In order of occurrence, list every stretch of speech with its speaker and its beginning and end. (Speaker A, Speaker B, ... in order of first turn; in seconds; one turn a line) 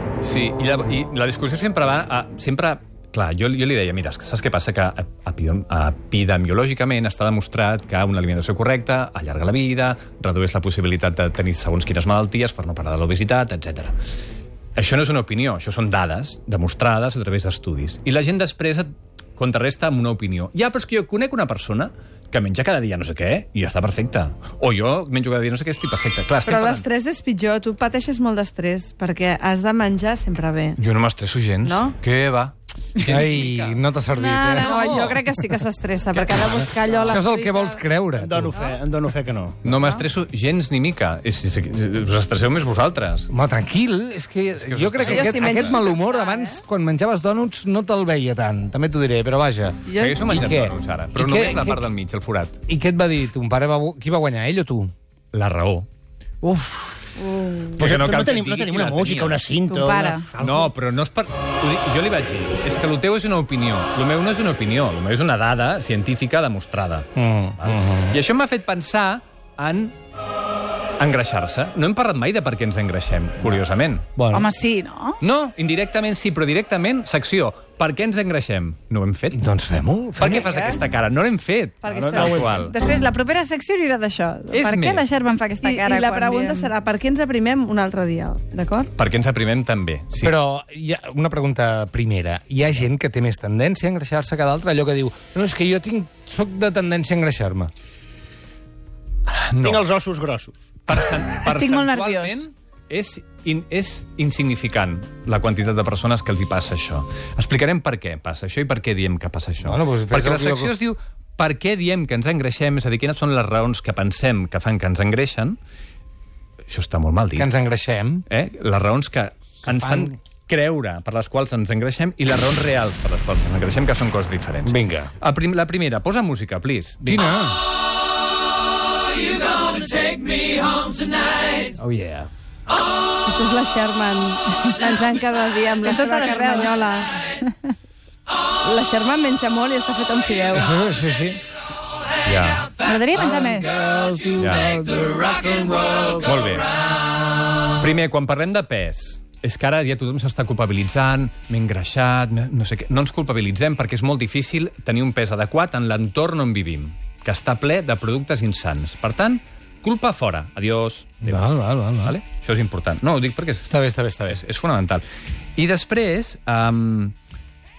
Speaker A: 0.2-13.9
Speaker A: 14.7-26.8
Speaker B: 26.4-30.8
Speaker A: 30.8-33.8
Speaker B: 31.6-31.9
Speaker C: 33.0-35.2
Speaker D: 34.2-35.0
Speaker B: 34.2-37.9
Speaker C: 37.1-38.6
Speaker E: 38.1-39.6
Speaker B: 38.5-38.8
Speaker A: 39.6-43.3
Speaker C: 43.3-51.8
Speaker A: 44.5-45.8
Speaker B: 45.0-46.6
Speaker B: 49.9-50.2
Speaker A: 49.9-52.6
Speaker C: 52.7-54.9
Speaker A: 55.3-55.9
Speaker C: 56.4-57.0
Speaker B: 57.2-57.7
Speaker E: 57.8-60.3
Speaker A: 57.8-59.4
Speaker D: 59.7-60.3
Speaker A: 60.4-70.0
Speaker C: 67.1-68.2
Speaker A: 71.0-74.1
Speaker C: 74.2-74.5
Speaker D: 74.3-75.2
Speaker A: 75.2-79.4
Speaker C: 79.3-80.5
Speaker A: 80.2-82.7
Speaker B: 81.8-82.7
Speaker E: 82.2-82.5
Speaker D: 82.5-86.7
Speaker A: 84.5-85.1
Speaker B: 85.6-88.9
Speaker A: 89.0-90.3
Speaker C: 90.2-97.7
Speaker E: 99.5-100.8
Speaker A: 100.9-115.6
Speaker D: 101.4-102.4
Speaker C: 109.6-110.7
Speaker A: 116.7-117.5
Speaker C: 117.3-118.2
Speaker A: 118.3-127.3
Speaker C: 119.6-120.2
Speaker C: 124.6-125.1
Speaker C: 127.0-127.6
Speaker C: 131.7-132.3
Speaker B: 133.2-137.1
Speaker D: 135.8-136.8
Speaker B: 138.6-140.8
Speaker C: 140.5-141.4
Speaker A: 142.2-142.7
Speaker D: 142.8-143.7
Speaker C: 143.2-146.2
Speaker A: 144.4-144.8
Speaker A: 146.2-146.7
Speaker A: 147.8-163.7
Speaker C: 161.2-162.1
Speaker C: 163.7-164.4
Speaker A: 164.2-165.0
Speaker A: 165.6-167.1